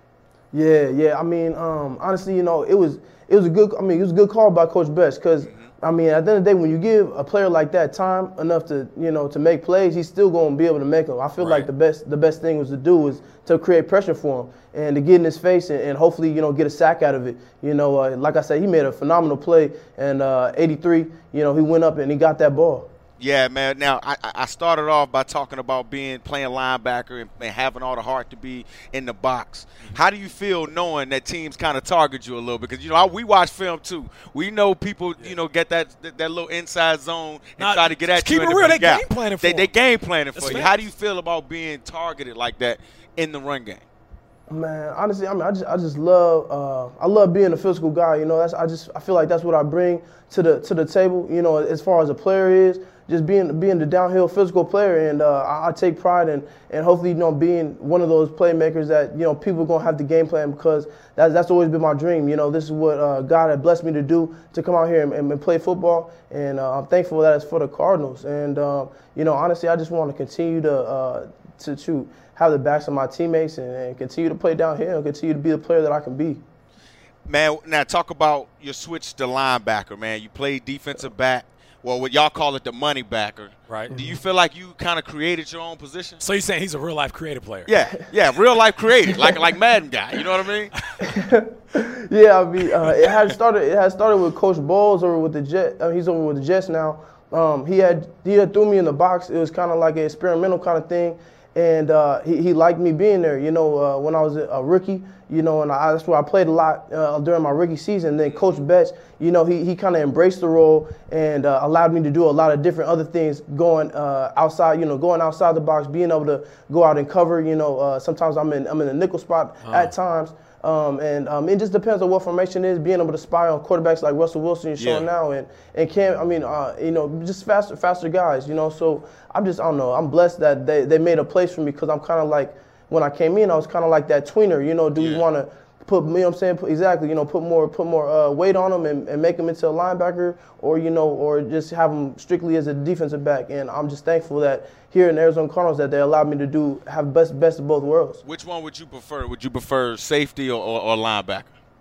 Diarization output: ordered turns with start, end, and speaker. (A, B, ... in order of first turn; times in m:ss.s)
0:00.5-0:22.9 A
0:05.4-0:05.7 B
0:11.4-0:11.7 B
0:23.2-0:43.8 B
0:37.6-0:39.7 C
0:40.3-0:40.8 C
0:44.5-1:16.4 A
1:17.2-1:26.2 B
1:23.7-1:23.9 C
1:23.9-1:24.2 A
1:26.2-1:27.7 C
1:27.6-1:30.7 B
1:31.0-2:28.2 A
1:59.6-1:59.9 C
2:04.8-2:05.1 B
2:15.0-2:15.2 B
2:28.2-2:31.5 B